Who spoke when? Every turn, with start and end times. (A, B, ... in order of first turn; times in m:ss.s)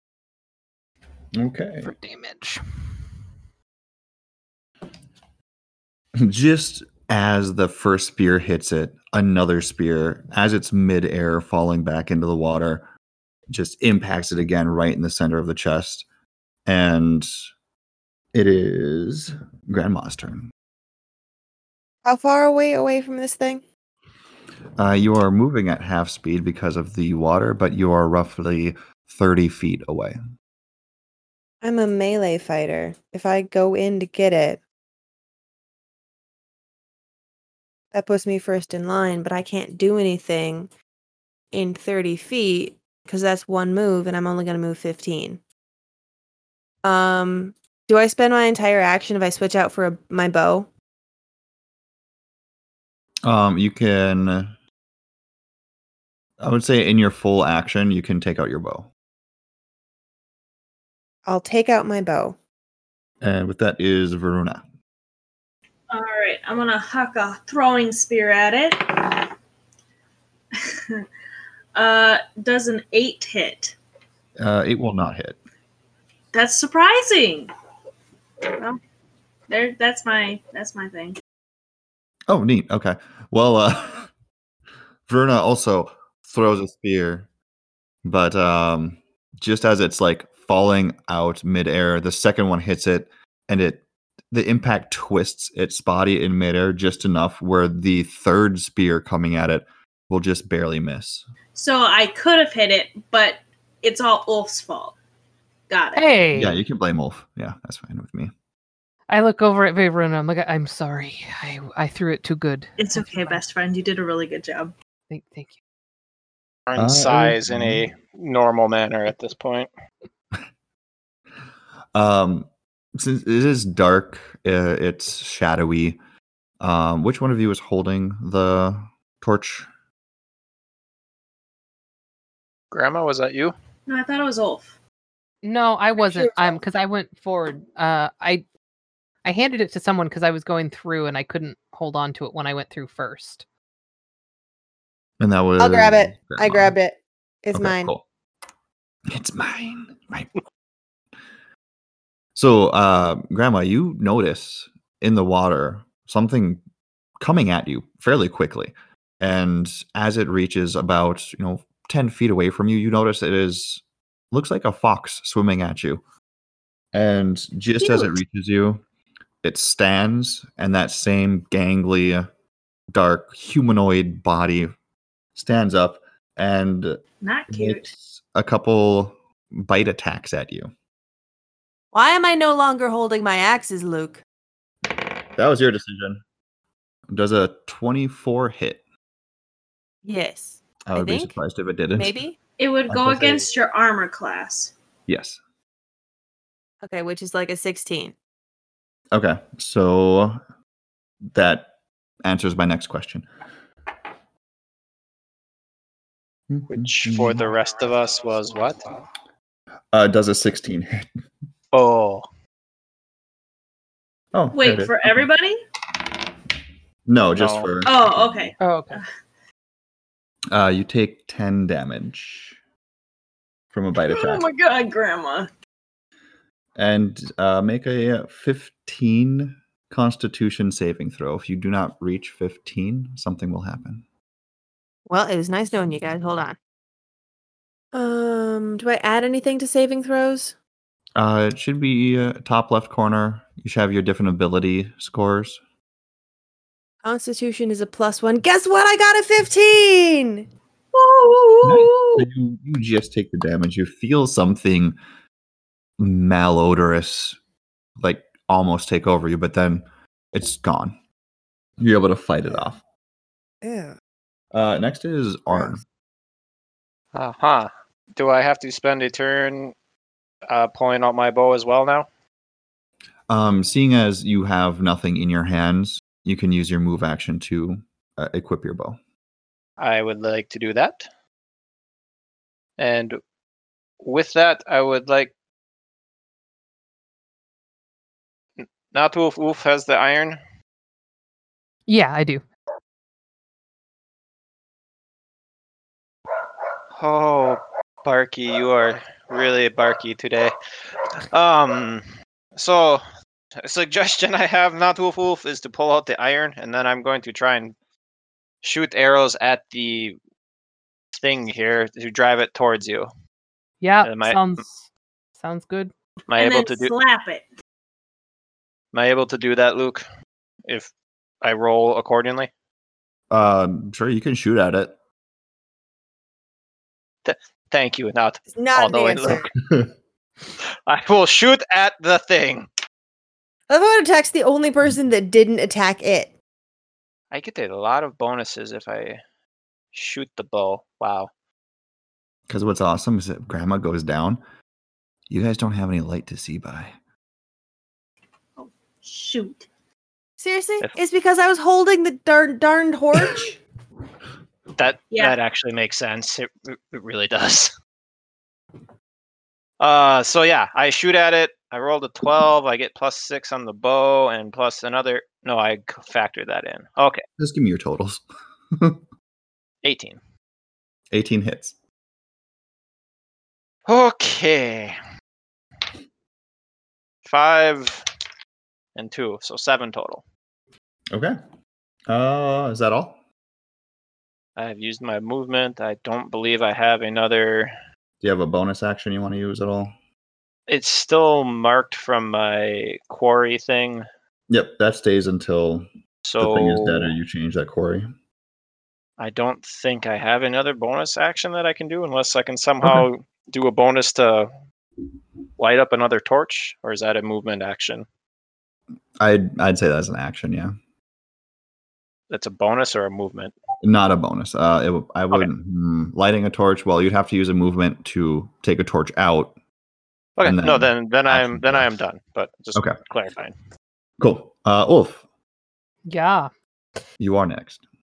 0:01.3-0:01.9 A
0:01.8-0:02.6 B
0:06.2-0:12.8 A
0:13.5-0:16.1 A
0:16.6-0:17.3 A
0:18.3-0:20.5 A
0:22.0-0:23.6 C
0:24.8-0:30.2 A
0:31.6-0:34.6 C
0:37.9-0:40.7 C
0:41.5-0:45.4 C
0:46.8-0:50.7 C
0:53.2-0:54.5 A
0:56.4-0:58.9 A
1:01.2-1:02.4 C
1:03.2-1:04.6 A
1:05.9-1:09.3 D
1:10.6-1:11.0 D
1:11.8-1:13.8 D
1:14.4-1:15.4 A
1:16.3-1:17.5 D
1:18.5-1:18.8 D
1:19.5-1:21.2 D
1:22.3-1:24.1 A
1:25.1-1:27.3 A
1:28.0-1:41.2 A
1:41.5-1:45.0 D
1:45.7-1:46.1 D
1:46.0-1:46.6 B
1:46.3-1:48.3 A
1:49.1-1:53.4 B
1:52.8-1:54.7 D
1:55.1-1:55.6 B
1:56.7-1:59.7 E
1:56.8-1:57.9 A
2:01.9-2:06.0 A
2:06.6-2:09.7 A
2:12.7-2:13.5 E
2:13.9-2:14.8 D
2:15.4-2:18.4 B
2:16.0-2:16.6 C
2:19.2-2:23.4 B
2:25.2-2:26.8 A
2:25.6-2:27.9 C
2:27.5-2:28.0 A
2:29.1-2:30.3 A
2:32.3-2:36.6 A
2:37.2-2:46.0 A
2:46.9-2:48.8 A
2:47.8-2:48.1 D
2:49.4-2:52.3 A
2:52.9-2:54.7 A
2:55.3-2:57.0 A
2:57.2-2:57.9 D
2:57.5-3:00.7 A
3:01.9-3:04.2 C
3:05.4-3:06.2 A
3:07.1-3:08.8 A
3:10.0-3:11.3 C
3:10.9-3:12.2 A
3:11.9-3:12.4 C
3:12.6-3:14.7 D
3:12.9-3:13.5 A
3:15.1-3:15.4 A
3:16.8-3:18.1 C
3:19.1-3:20.4 A
3:21.3-3:21.7 A
3:22.2-3:23.2 A
3:26.5-3:27.5 A
3:26.7-3:28.8 E
3:29.9-3:31.1 A
3:31.7-3:32.2 E
3:34.3-3:35.2 A
3:34.5-3:35.6 D
3:37.1-3:38.5 A
3:37.4-3:37.7 E
3:37.8-3:39.0 D
3:38.6-3:39.0 B
3:40.5-3:42.6 A
3:43.7-3:44.4 A
3:44.0-3:45.5 D
3:46.8-3:54.0 A
3:55.1-3:56.6 C
3:57.9-4:00.6 C
4:01.2-4:05.6 A
4:07.0-4:10.5 C
4:10.9-4:12.2 D
4:11.6-4:15.0 A
4:16.0-4:17.4 A
4:18.0-4:21.0 A
4:21.8-4:22.8 A
4:23.6-4:23.9 C
4:24.5-4:25.8 A
4:27.1-4:29.7 E
4:30.5-4:32.1 E
4:33.3-4:39.0 A
4:39.8-4:41.1 E
4:42.8-4:43.2 E
4:44.0-4:45.3 E
4:48.6-4:50.4 E
4:51.9-4:52.4 B
4:57.0-5:00.5 E
5:01.3-5:02.0 E
5:02.6-5:03.0 E
5:03.6-5:07.7 E
5:08.6-5:10.2 E
5:11.1-5:13.1 E
5:13.8-5:15.9 B
5:14.0-5:14.5 E
5:16.3-5:16.9 E
5:16.3-5:17.4 D
5:18.9-5:20.0 E
5:21.4-5:22.5 E
5:23.3-5:24.9 A
5:27.2-5:29.5 E
5:28.5-5:29.5 C
5:30.9-5:32.7 E
5:33.7-5:36.3 C
5:37.3-5:39.2 E
5:39.9-5:41.3 E
5:42.5-5:44.4 A
5:45.3-5:46.9 A
5:48.6-5:49.7 D
5:50.4-5:53.6 C
5:54.8-5:57.7 E
5:55.1-5:55.4 D
5:59.8-6:07.2 E
6:07.4-6:09.0 A
6:09.8-6:10.2 E
6:11.1-6:11.7 A
6:13.9-6:15.0 E
6:17.2-6:18.0 E
6:19.0-6:20.2 E
6:21.1-6:21.4 A
6:22.1-6:23.2 A
6:24.6-6:27.7 E
6:28.2-6:29.9 A
6:30.7-6:34.0 E
6:34.5-6:35.8 A
6:36.2-6:37.1 E
6:36.4-6:38.1 A
6:39.2-6:44.5 E
6:45.6-6:48.1 E
6:49.2-6:50.7 A
6:52.3-6:53.6 E
6:53.8-6:59.6 A
7:00.4-7:03.5 E
7:00.4-7:01.9 A
7:04.2-7:05.2 A
7:06.1-7:06.5 B
7:07.2-7:07.8 A